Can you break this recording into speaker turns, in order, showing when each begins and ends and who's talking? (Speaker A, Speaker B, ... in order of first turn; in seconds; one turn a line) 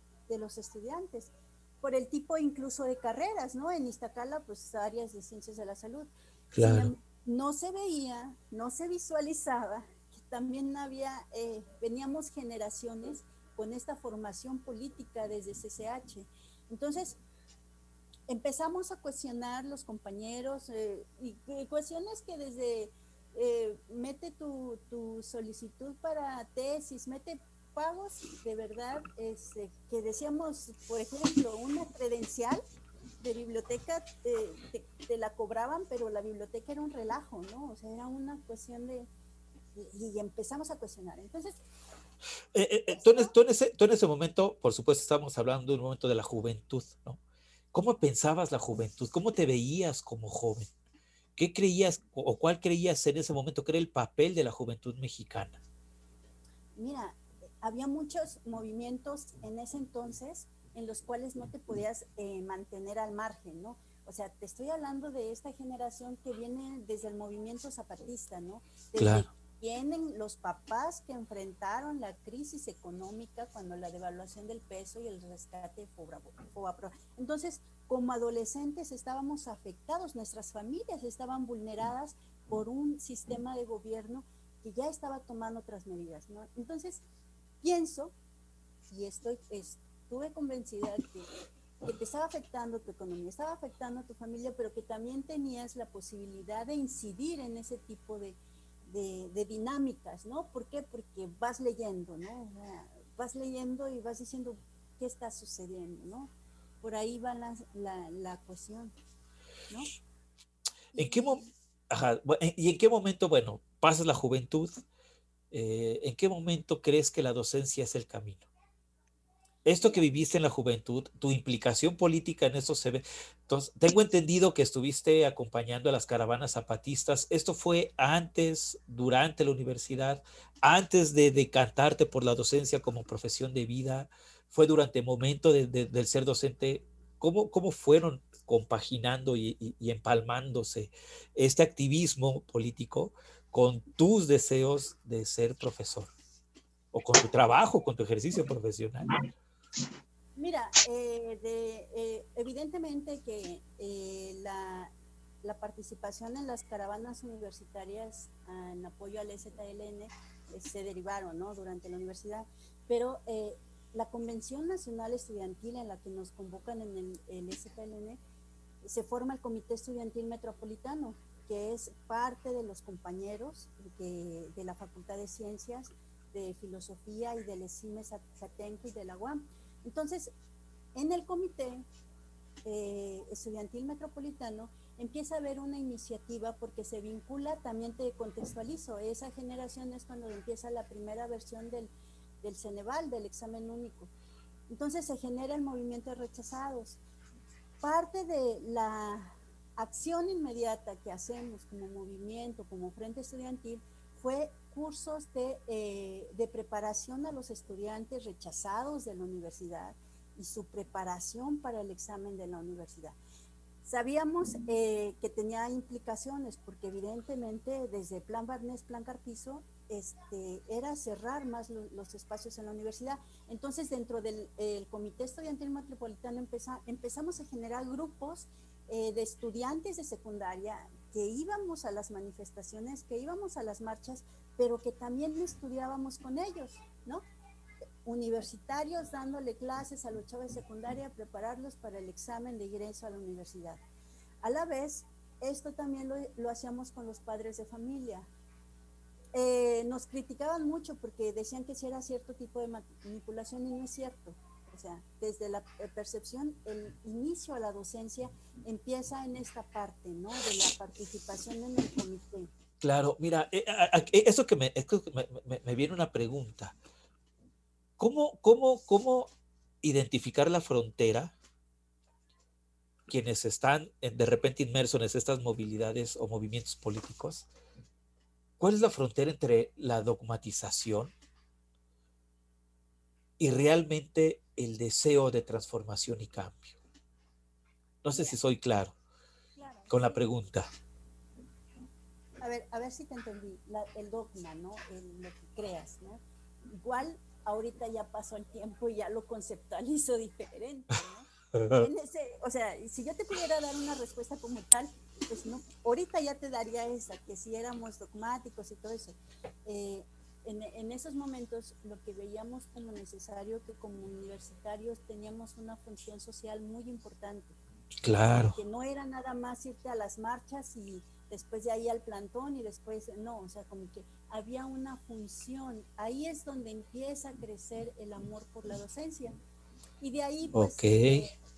Speaker A: 0.3-17.2
Speaker B: 6.5-6.9
Speaker A: 18.3-32.6
Speaker A: 33.2-39.1
Speaker A: 39.8-41.6
Speaker B: 42.5-47.2
Speaker A: 42.9-43.3
Speaker B: 47.7-50.7
Speaker B: 51.4-55.6
Speaker A: 56.8-87.0
Speaker B: 69.0-69.3
Speaker A: 87.6-88.1
Speaker A: 88.9-106.3
Speaker A: 106.8-108.9
Speaker A: 110.9-111.5
Speaker B: 110.9-114.7
Speaker B: 115.5-118.5
Speaker B: 119.7-146.1
Speaker A: 119.8-120.0
Speaker B: 146.9-149.1
Speaker A: 150.4-154.9
Speaker A: 155.4-168.2
Speaker A: 168.8-180.3
Speaker A: 180.9-181.8
Speaker A: 182.7-191.9
Speaker A: 192.4-194.1
Speaker A: 194.7-197.0
Speaker A: 197.8-213.2
Speaker A: 213.8-237.2
Speaker A: 238.1-243.8
Speaker A: 244.4-248.3
Speaker A: 249.3-262.5
Speaker B: 262.8-266.8
Speaker B: 268.0-269.3
Speaker B: 269.8-271.3
Speaker B: 273.1-277.5
Speaker B: 278.6-281.1
Speaker B: 283.4-286.8
Speaker B: 288.0-288.9
Speaker A: 288.1-288.4
Speaker A: 289.6-290.3
Speaker B: 289.9-290.7
Speaker A: 292.4-317.6
Speaker B: 301.5-301.9
Speaker B: 318.0-318.6
Speaker A: 318.6-329.4
Speaker A: 330.0-331.4
Speaker B: 330.5-331.3